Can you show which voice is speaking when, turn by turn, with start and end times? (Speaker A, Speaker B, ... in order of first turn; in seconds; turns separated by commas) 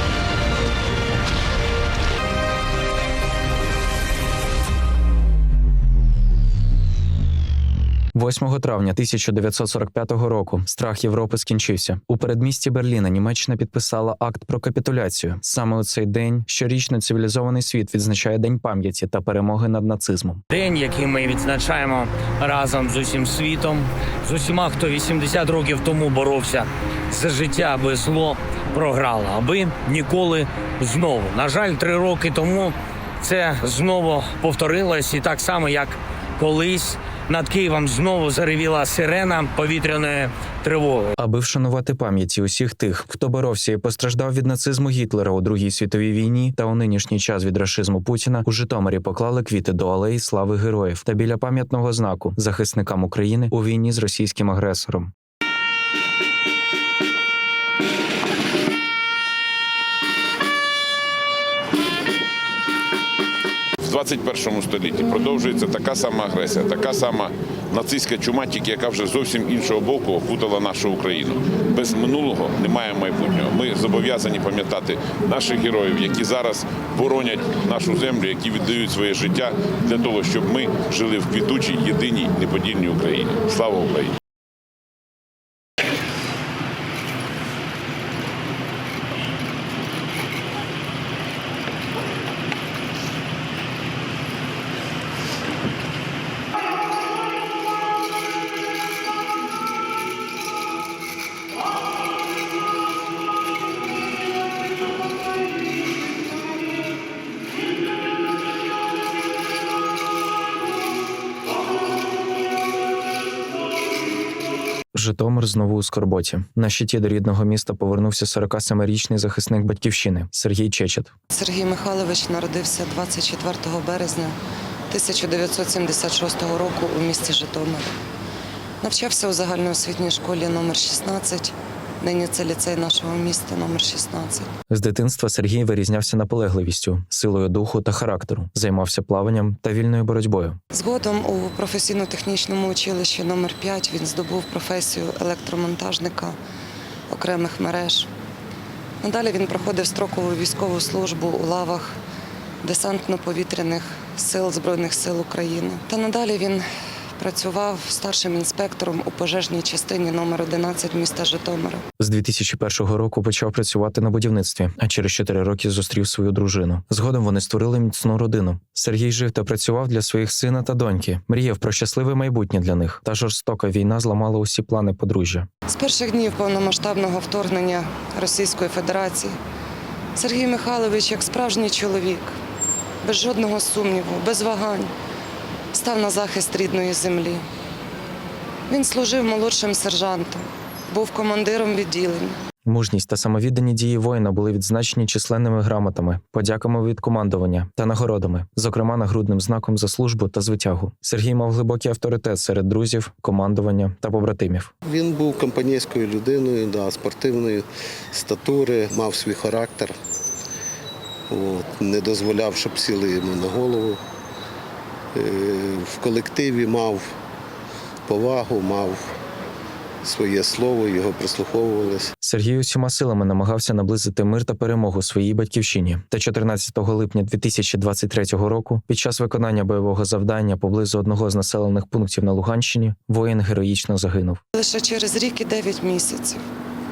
Speaker A: 8.1-20.4, Speaker B: 20.5-41.1, Speaker A: 41.2-55.1, Speaker C: 63.9-84.1, Speaker A: 114.9-121.1, Speaker D: 121.3-124.3, Speaker D: 124.9-127.9, Speaker D: 128.8-134.5, Speaker A: 134.7-140.6, Speaker D: 140.7-146.4, Speaker D: 147.1-148.1, Speaker D: 149.0-152.0, Speaker D: 152.6-156.7, Speaker D: 157.2-161.8, Speaker A: 162.0-175.5, Speaker D: 175.7-179.4, Speaker D: 180.2-182.3, Speaker D: 183.0-184.9, Speaker D: 185.7-187.4, Speaker D: 188.7-192.4, Speaker A: 192.7-204.7, Speaker E: 204.8-209.9, Speaker E: 211.3-214.0, Speaker E: 215.2-217.1, Speaker E: 218.1-219.0, Speaker E: 220.0-222.1, Speaker A: 222.2-234.4, Speaker D: 234.6-236.4